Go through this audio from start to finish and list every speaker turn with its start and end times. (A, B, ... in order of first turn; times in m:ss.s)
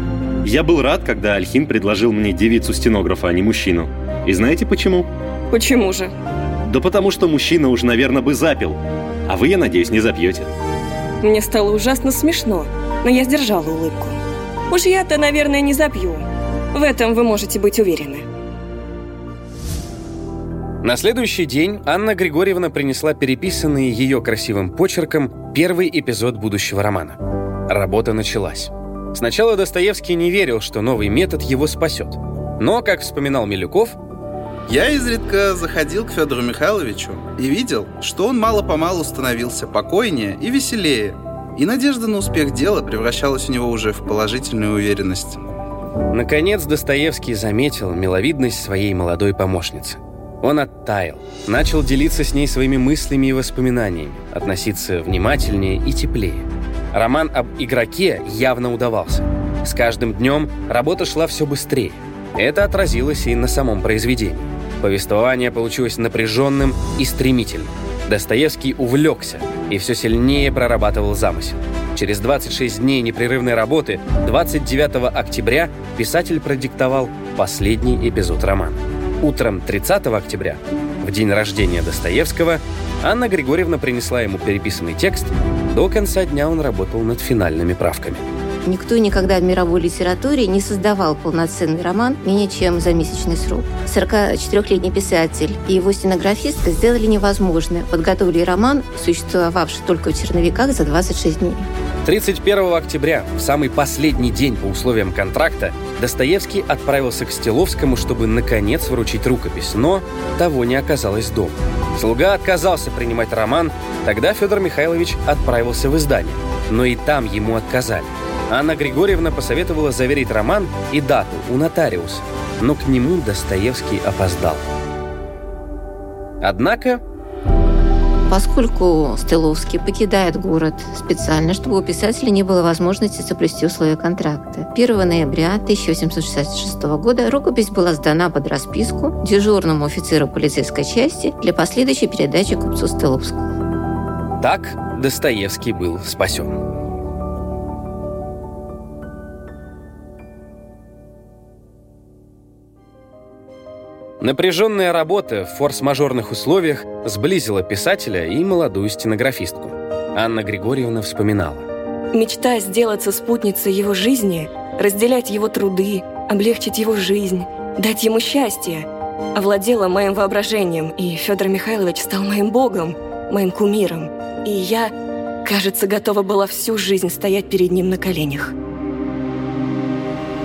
0:00.4-0:05.1 A
0:05.5-0:06.1 B
0:06.7-0:10.5 A
0:11.2-0:14.2 B
0:14.7-0:18.2 B
0:20.8-0:34.0 C
0:34.7-0:45.4 D
0:46.1-1:28.2 C
1:28.6-1:41.6 E
1:42.0-2:04.7 C
2:06.4-2:07.0 C
2:08.3-2:23.5 E
2:24.4-2:26.6 C
2:34.2-2:41.7 C
2:42.1-2:54.9 B
2:55.4-2:58.5 B